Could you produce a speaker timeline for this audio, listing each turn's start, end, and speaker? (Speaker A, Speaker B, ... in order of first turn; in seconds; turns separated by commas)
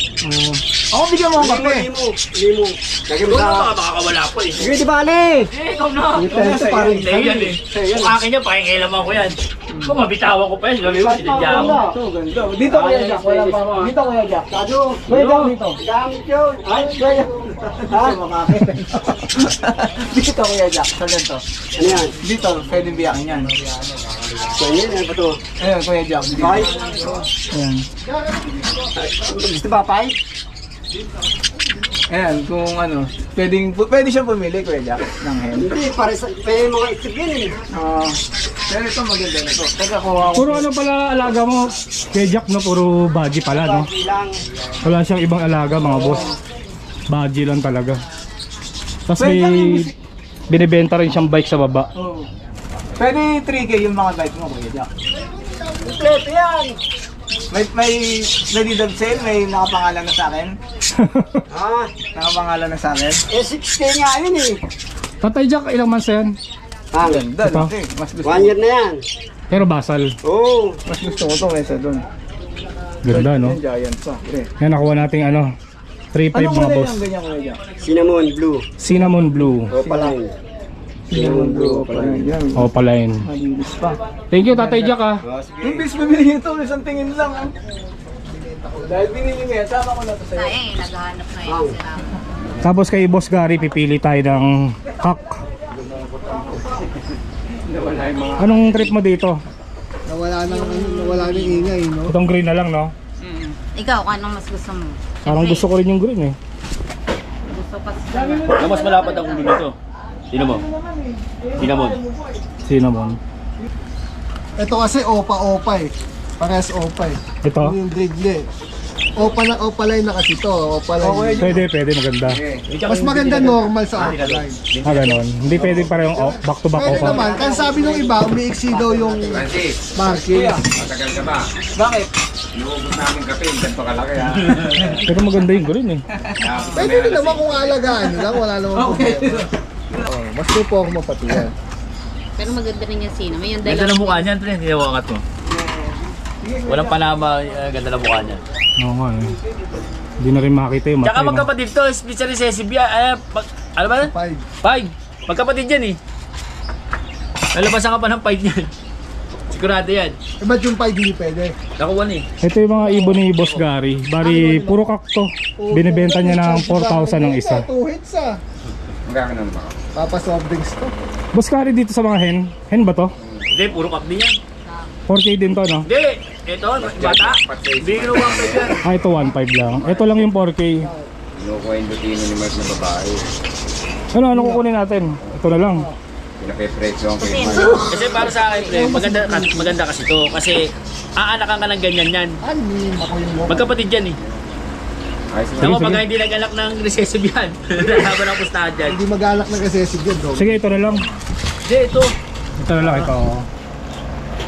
Speaker A: 0.2-1.9, Speaker B: 1.4-3.7, Speaker C: 3.3-4.8, Speaker B: 4.6-5.5, Speaker C: 5.5-11.8, Speaker B: 6.1-8.1, Speaker A: 6.2-7.6, Speaker A: 9.7-9.9, Speaker B: 10.8-12.0, Speaker A: 11.3-14.5, Speaker C: 12.7-13.9, Speaker B: 13.1-13.6, Speaker B: 14.5-15.2, Speaker A: 15.1-15.8, Speaker B: 15.8-18.6, Speaker A: 16.7-21.4, Speaker B: 21.8-22.1, Speaker A: 22.2-23.6, Speaker B: 24.5-25.4, Speaker A: 25.6-26.9, Speaker B: 26.4-26.8, Speaker A: 27.5-27.9, Speaker D: 28.2-28.5, Speaker B: 29.0-30.1, Speaker A: 32.1-35.7, Speaker B: 35.5-37.5, Speaker A: 37.7-38.2, Speaker A: 38.7-40.7, Speaker E: 40.4-43.9, Speaker B: 43.6-44.3, Speaker E: 44.8-46.3, Speaker A: 45.8-46.3, Speaker E: 47.1-48.0, Speaker E: 49.1-49.9, Speaker A: 49.2-49.9, Speaker E: 50.5-51.9, Speaker A: 52.0-52.3, Speaker A: 53.0-54.9, Speaker D: 55.3-55.8, Speaker B: 55.8-56.8, Speaker A: 57.5-60.6, Speaker E: 60.9-61.4, Speaker B: 61.5-61.9, Speaker A: 62.1-63.2, Speaker B: 63.3-64.6, Speaker E: 65.2-66.3, Speaker B: 66.9-67.2, Speaker A: 67.0-68.5, Speaker E: 67.4-67.7, Speaker B: 68.2-69.0, Speaker E: 69.5-70.1, Speaker B: 70.2-70.8, Speaker A: 70.9-72.0, Speaker E: 73.1-73.6, Speaker A: 73.1-74.5, Speaker E: 74.6-75.5, Speaker E: 76.1-77.0, Speaker A: 76.3-77.6, Speaker B: 77.8-78.7, Speaker E: 78.8-79.7, Speaker A: 78.9-80.1, Speaker B: 79.7-80.3, Speaker A: 81.1-82.7, Speaker B: 81.1-82.3, Speaker E: 82.5-83.2, Speaker A: 83.2-84.0, Speaker E: 84.3-85.2, Speaker A: 84.5-84.9, Speaker B: 85.2-85.9, Speaker A: 85.6-87.5, Speaker D: 88.3-89.3, Speaker A: 88.8-90.6, Speaker F: 90.3-92.2, Speaker B: 91.5-91.8, Speaker E: 92.6-95.3, Speaker G: 95.7-96.8, Speaker G: 97.7-98.9, Speaker E: 98.4-99.4, Speaker D: 100.1-102.1, Speaker F: 100.5-101.7, Speaker E: 102.1-102.9, Speaker F: 103.2-105.7, Speaker E: 105.2-106.4, Speaker F: 107.5-109.6, Speaker A: 108.1-108.7, Speaker C: 108.5-109.7, Speaker C: 110.3-110.6, Speaker A: 110.4-112.2, Speaker C: 111.6-112.0, Speaker E: 112.7-113.2, Speaker D: 114.6-118.5, Speaker E: 117.4-117.8, Speaker D: 119.2-121.6, Speaker A: 121.0-121.6, Speaker E: 121.4-122.4, Speaker G: 122.3-122.6, Speaker C: 122.7-124.5, Speaker D: 122.8-124.6, Speaker G: 124.7-126.3, Speaker E: 124.8-127.3, Speaker D: 126.7-130.6, Speaker B: 126.8-129.5, Speaker G: 129.3-129.8, Speaker A: 130.3-130.6, Speaker G: 130.7-131.5, Speaker A: 131.8-132.1, Speaker G: 132.6-135.0, Speaker E: 135.1-136.0, Speaker A: 136.2-136.9, Speaker G: 136.4-137.9, Speaker D: 136.7-139.4, Speaker A: 138.7-140.1, Speaker D: 140.1-141.5, Speaker F: 142.4-144.3, Speaker C: 143.6-145.2, Speaker A: 145.4-147.1, Speaker C: 146.7-148.4, Speaker E: 148.8-149.4, Speaker E: 150.2-151.4, Speaker C: 151.0-154.1, Speaker D: 154.0-154.4, Speaker C: 154.6-156.0, Speaker C: 157.6-158.7, Speaker C: 159.5-160.2, Speaker D: 160.4-161.6, Speaker C: 161.8-162.2, Speaker E: 162.4-167.7, Speaker D: 162.7-163.2, Speaker D: 164.2-164.8, Speaker D: 165.6-168.4, Speaker G: 169.1-169.8, Speaker D: 169.9-170.9, Speaker E: 171.3-173.1, Speaker G: 173.2-173.9, Speaker C: 173.5-174.4, Speaker E: 175.1-175.9, Speaker C: 175.9-178.8, Speaker G: 176.8-178.8, Speaker E: 178.8-180.9, Speaker G: 179.7-180.3, Speaker G: 181.4-183.2, Speaker E: 184.1-185.9, Speaker G: 185.2-185.7, Speaker G: 186.4-187.8, Speaker F: 187.2-188.7, Speaker C: 187.8-190.6, Speaker D: 188.4-189.8, Speaker C: 191.2-192.4, Speaker D: 192.4-193.7, Speaker C: 193.5-194.2, Speaker G: 194.2-194.5, Speaker G: 195.3-196.0, Speaker E: 195.6-196.0, Speaker C: 195.6-199.0, Speaker D: 198.9-200.6, Speaker E: 200.3-201.1, Speaker C: 201.7-202.1, Speaker E: 202.6-203.4